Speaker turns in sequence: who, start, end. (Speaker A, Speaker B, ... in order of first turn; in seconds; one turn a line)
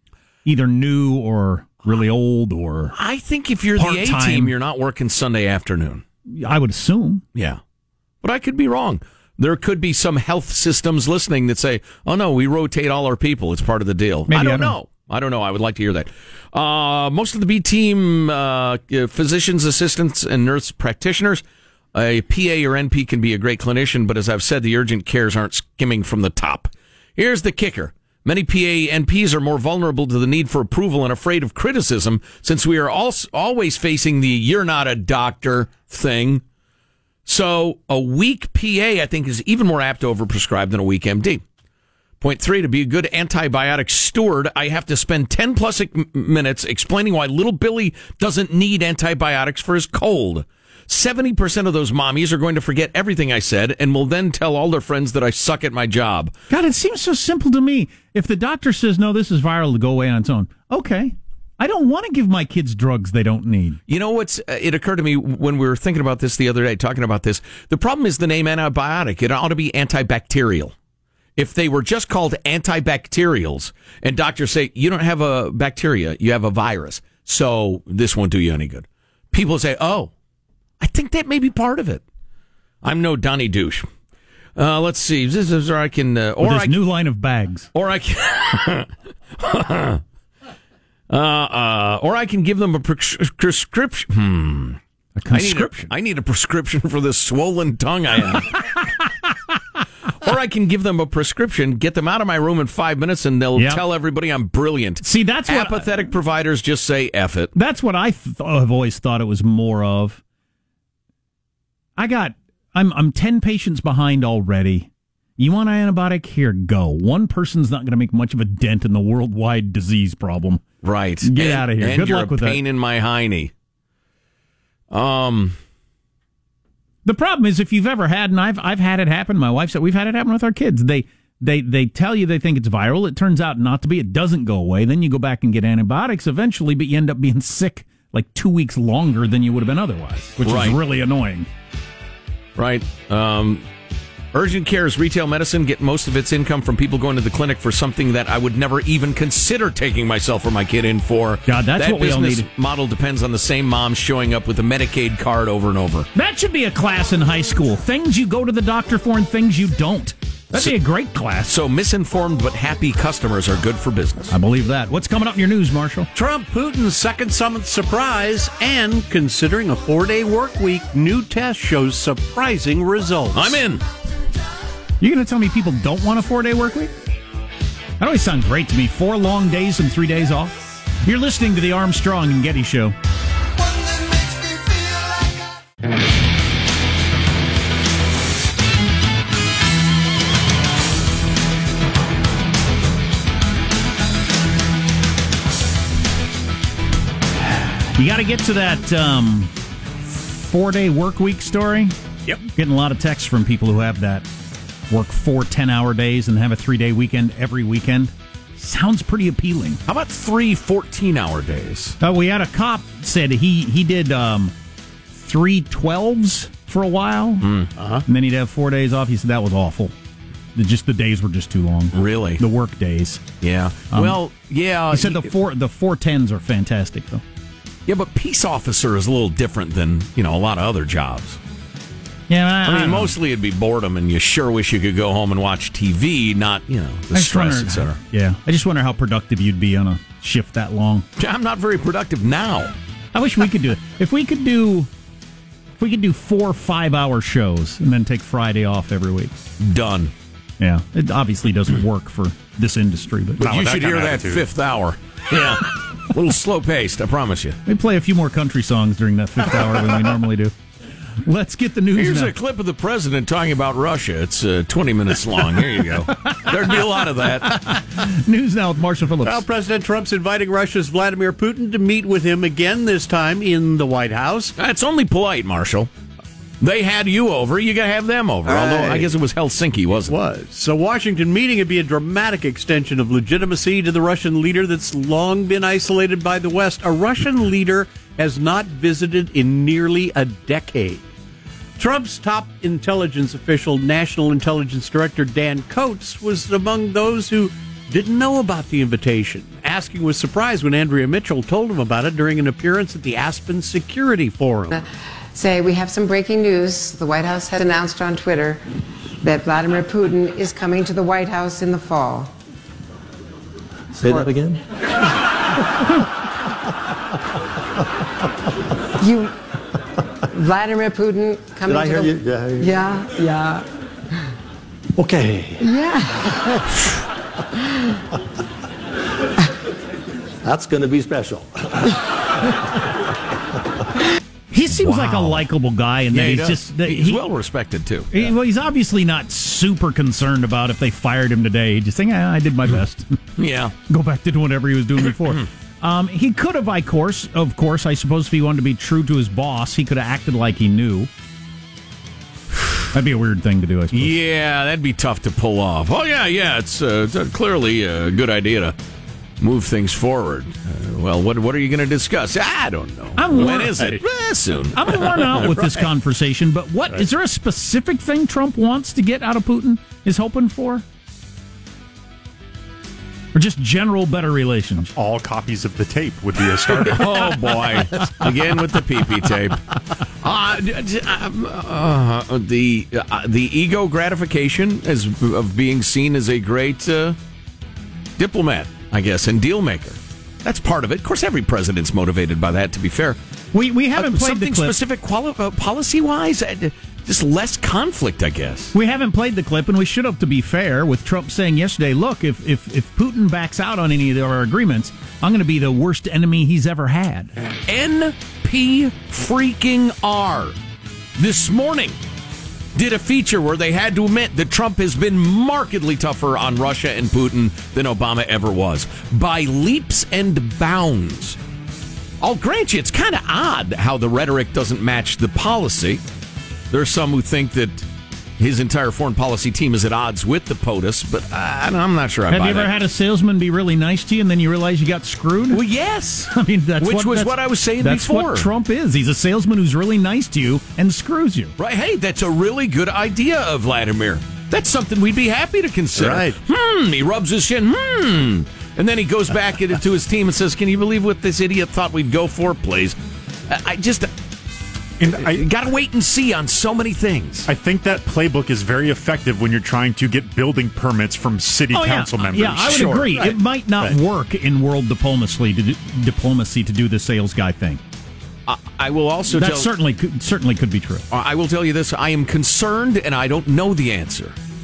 Speaker A: 0.4-2.9
Speaker B: 2.9-6.0
Speaker A: 3.8-4.5
Speaker A: 6.3-7.2
Speaker B: 8.2-21.4
Speaker A: 14.3-14.7
Speaker B: 21.9-36.4
Speaker B: 37.2-41.4
Speaker B: 42.2-56.3
Speaker A: 56.5-63.8
Speaker B: 63.9-70.7
Speaker B: 71.4-80.1
Speaker B: 80.8-82.0
Speaker B: 82.8-83.9
Speaker B: 84.6-86.8
Speaker A: 86.4-87.7
Speaker B: 87.7-90.0
Speaker B: 91.1-94.8
Speaker A: 95.2-95.9
Speaker B: 95.3-98.7
Speaker B: 100.2-107.5
Speaker A: 103.5-103.8
Speaker A: 105.0-106.1
Speaker A: 107.5-110.2
Speaker A: 112.0-120.6
Speaker B: 120.8-123.5
Speaker A: 121.2-122.6
Speaker B: 124.9-125.6
Speaker A: 127.0-141.5
Speaker B: 140.4-140.8
Speaker B: 142.6-143.6
Speaker B: 144.3-156.1
Speaker A: 151.5-152.4
Speaker A: 156.1-161.5
Speaker B: 161.5-164.3
Speaker A: 164.3-166.1
Speaker C: 166.1-173.6
Speaker B: 173.3-173.8
Speaker A: 175.0-176.9
Speaker A: 178.0-182.9
Speaker A: 197.5-199.5
Speaker A: 200.1-204.3
Speaker A: 204.9-209.8
Speaker B: 209.8-212.0
Speaker A: 212.0-214.5
Speaker A: 215.2-217.5
Speaker B: 217.4-217.7
Speaker C: 217.8-218.0
Speaker A: 218.1-219.9
Speaker A: 220.5-223.2
Speaker B: 221.9-222.4
Speaker B: 223.4-225.3
Speaker A: 223.9-224.2
Speaker A: 224.9-227.2
Speaker B: 227.9-231.4
Speaker A: 232.3-233.1
Speaker B: 232.7-238.0
Speaker A: 237.1-241.1
Speaker B: 241.2-242.7
Speaker A: 243.1-244.9
Speaker A: 245.8-249.3
Speaker B: 249.6-250.1
Speaker A: 250.6-253.5
Speaker D: 253.4-254.4
Speaker B: 253.4-257.6
Speaker A: 257.6-260.5
Speaker A: 261.2-262.3
Speaker B: 261.9-267.6
Speaker A: 266.1-269.4
Speaker C: 269.2-274.5
Speaker B: 274.6-275.9
Speaker B: 276.6-280.1
Speaker C: 278.4-279.1
Speaker C: 280.1-291.0
Speaker C: 291.8-304.8
Speaker E: 304.7-308.6
Speaker E: 309.2-312.3
Speaker F: 313.9-314.6
Speaker E: 314.0-314.3
Speaker E: 319.0-319.3
Speaker E: 320.3-323.6
Speaker F: 321.6-322.7
Speaker F: 324.9-325.6
Speaker E: 325.6-326.2
Speaker F: 330.4-332.0
Speaker A: 334.5-337.2
Speaker B: 334.7-335.4
Speaker B: 336.1-338.1
Speaker A: 338.1-343.2
Speaker B: 343.4-343.7
Speaker A: 343.9-351.1
Speaker A: 352.9-354.1
Speaker B: 353.9-358.7
Speaker B: 359.4-365.7
Speaker A: 363.2-364.0
Speaker A: 364.7-370.8
Speaker A: 373.3-374.9
Speaker D: 374.9-377.5
Speaker B: 376.8-387.2
Speaker B: 388.2-393.2
Speaker A: 393.5-394.8
Speaker B: 393.9-398.7
Speaker A: 398.7-407.3
Speaker B: 407.7-410.6
Speaker B: 411.2-412.0
Speaker B: 412.7-421.4
Speaker B: 422.2-426.0
Speaker B: 426.7-427.9
Speaker B: 428.4-432.7
Speaker A: 432.3-435.6
Speaker B: 435.5-438.5
Speaker A: 436.3-441.5
Speaker B: 441.6-452.9
Speaker C: 445.9-446.4
Speaker B: 453.5-454.1
Speaker D: 455.0-455.5
Speaker B: 455.1-457.5
Speaker D: 457.4-464.0
Speaker A: 461.7-467.8
Speaker B: 462.3-463.3
Speaker B: 468.5-469.7
Speaker A: 469.3-471.0
Speaker B: 471.1-474.3